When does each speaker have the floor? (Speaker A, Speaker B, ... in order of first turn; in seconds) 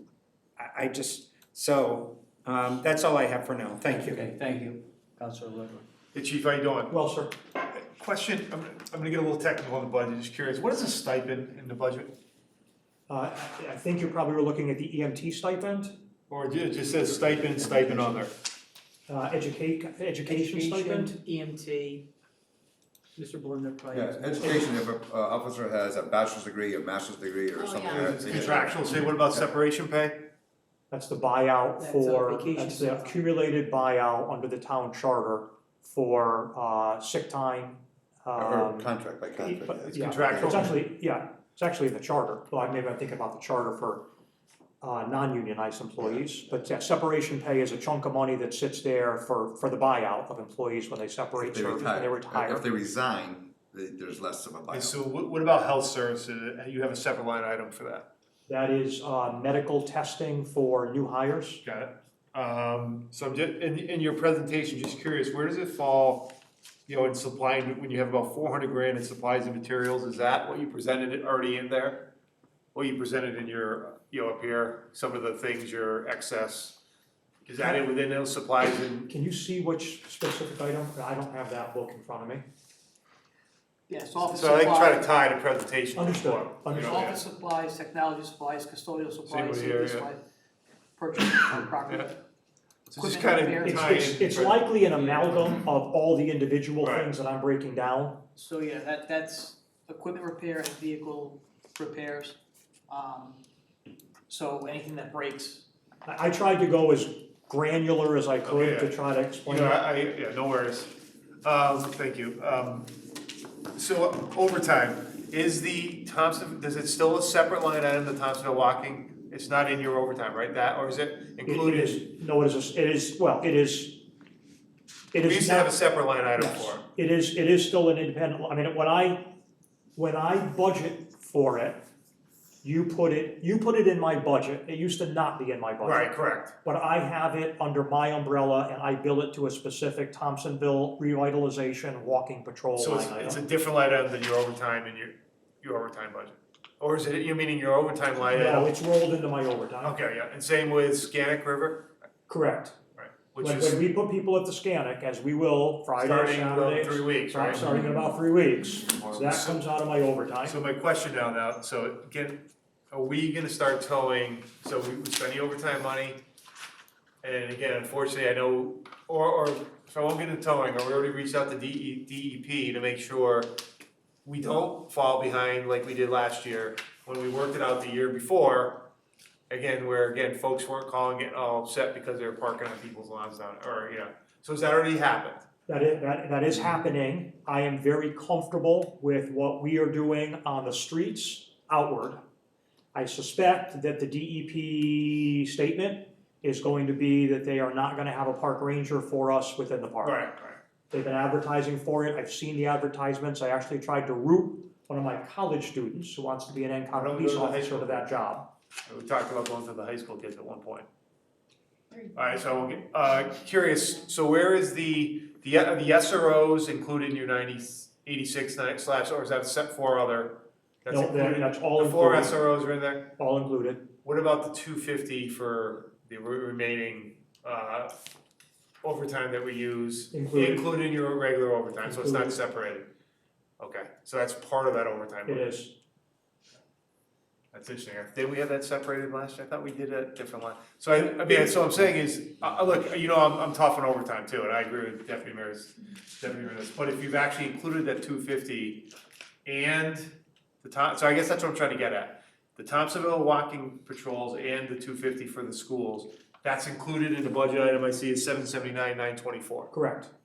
Speaker A: 0.6-4.3
Speaker B: 5.2-5.8, 20.3-22.0, 23.2-24.6, 27.6-28.1, 31.8-33.2, 83.9-85.0, 86.8-90.2, 91.0-92.2, 93.0-93.8, 98.3-103.4, 104.3-105.6
Speaker C: 6.1-6.9, 7.7-12.2, 16.3-18.3, 27.9-30.3, 39.9-40.8, 54.7-58.1, 61.6-66.3, 66.9-72.1, 72.7-76.8, 77.5-79.1, 84.2-87.2, 89.3-90.1, 92.9-95.2, 96.8-97.1, 108.4-113.0, 113.7-122.0, 125.2-126.8, 135.8-136.5, 142.8-148.7, 149.8-151.9, 153.0-153.8, 156.0-157.7, 158.9-159.6, 160.4-166.2, 167.2-173.5, 174.2-178.9, 179.5-185.5, 200.0-200.6, 206.9-208.1, 208.9-210.9, 212.1-223.1, 224.0-227.9, 228.8-232.9, 233.6-235.5, 237.5-248.9, 249.5-259.7
Speaker D: 6.9-7.4, 13.1-15.9, 19.1-21.2, 24.4-24.7, 30.9-44.1, 44.8-52.6, 58.5-61.6, 79.1-82.5, 86.0-87.1, 93.6-98.2, 106.1-109.8, 121.5-124.0, 125.1-129.3, 130.0-131.8, 132.6-143.4, 148.3-149.9, 152.3-152.8, 153.4-160.6, 185.7-192.2, 192.9-200.2, 200.9-208.5, 220.9-222.5, 223.2-223.8, 230.1-230.7, 231.9-232.4, 235.3-235.8, 259.7-260.1
Speaker E: 23.9-29.4, 38.4-40.8, 51.4-55.0